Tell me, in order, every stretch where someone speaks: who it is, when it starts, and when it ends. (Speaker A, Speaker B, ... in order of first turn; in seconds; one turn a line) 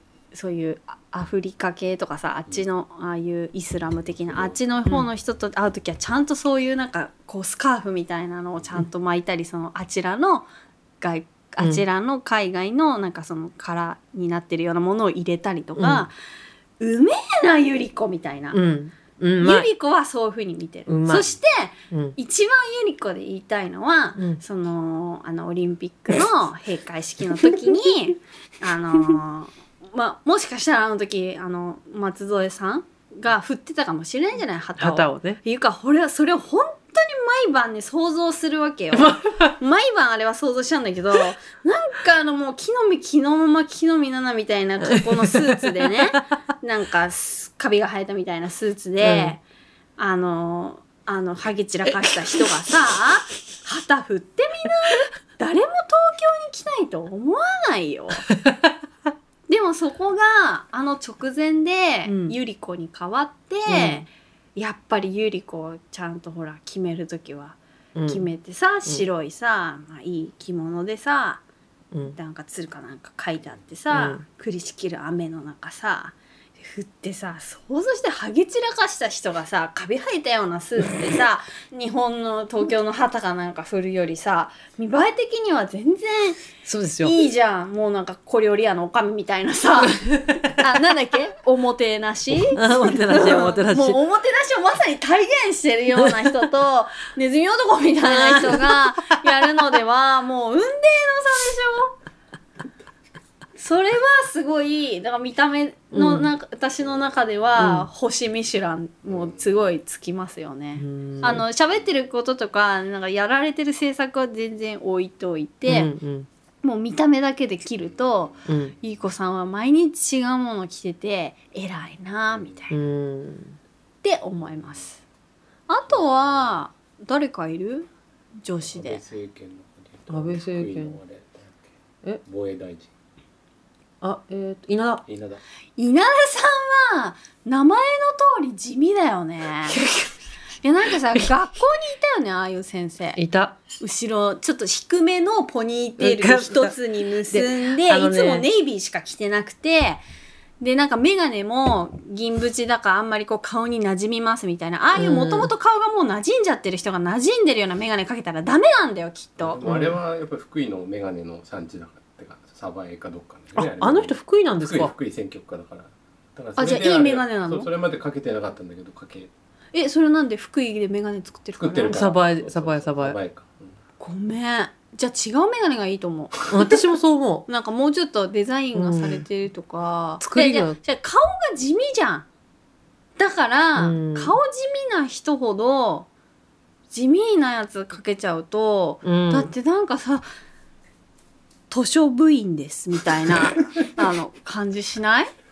Speaker A: 0.3-10.5
Speaker B: 4.2-4.6
Speaker A: 11.0-16.1
Speaker C: 15.8-16.1
Speaker A: 16.8-18.6
Speaker C: 18.5-19.7
Speaker A: 19.4-49.4
Speaker C: 20.9-21.3
Speaker C: 21.9-22.2
Speaker C: 24.2-24.4
Speaker C: 34.8-35.4
Speaker C: 38.9-39.6
Speaker C: 44.9-46.0
Speaker C: 49.0-49.4
Speaker A: 50.0-58.3
Speaker A: 59.5-71.4
Speaker C: 62.1-62.4
Speaker C: 63.7-64.1
Speaker C: 68.0-68.3
Speaker C: 71.9-72.2
Speaker A: 72.2-86.4
Speaker C: 73.9-74.2
Speaker C: 86.6-87.2
Speaker A: 87.0-102.0
Speaker C: 90.0-90.5
Speaker C: 92.5-94.0
Speaker C: 96.0-96.5
Speaker C: 98.0-99.1
Speaker A: 103.6-115.9
Speaker C: 105.9-106.3
Speaker C: 107.6-107.9
Speaker C: 110.8-111.4
Speaker C: 115.7-116.3
Speaker A: 116.6-122.8
Speaker C: 118.5-118.8
Speaker B: 122.3-122.7
Speaker C: 122.7-123.6
Speaker A: 124.0-125.0
Speaker A: 125.7-127.9
Speaker A: 128.4-129.0
Speaker B: 128.7-131.7
Speaker C: 130.1-131.0
Speaker B: 132.2-132.9
Speaker C: 134.0-135.0
Speaker B: 135.1-135.4
Speaker A: 135.8-139.8
Speaker C: 139.7-140.1
Speaker A: 140.6-143.2
Speaker C: 143.2-143.6
Speaker A: 143.8-150.0
Speaker C: 146.0-146.8
Speaker C: 147.3-148.5
Speaker A: 150.6-159.6
Speaker C: 154.9-155.5
Speaker B: 159.4-169.3
Speaker C: 159.7-160.0
Speaker C: 163.6-164.9
Speaker A: 166.6-167.7
Speaker A: 169.7-172.0
Speaker B: 171.6-173.7
Speaker C: 171.9-173.2
Speaker A: 174.0-176.8
Speaker C: 176.5-177.5
Speaker A: 177.5-182.3
Speaker C: 178.8-179.2
Speaker C: 180.2-180.8
Speaker A: 183.2-186.1
Speaker C: 183.8-184.4
Speaker A: 186.9-190.2
Speaker C: 189.0-189.5
Speaker A: 191.7-195.3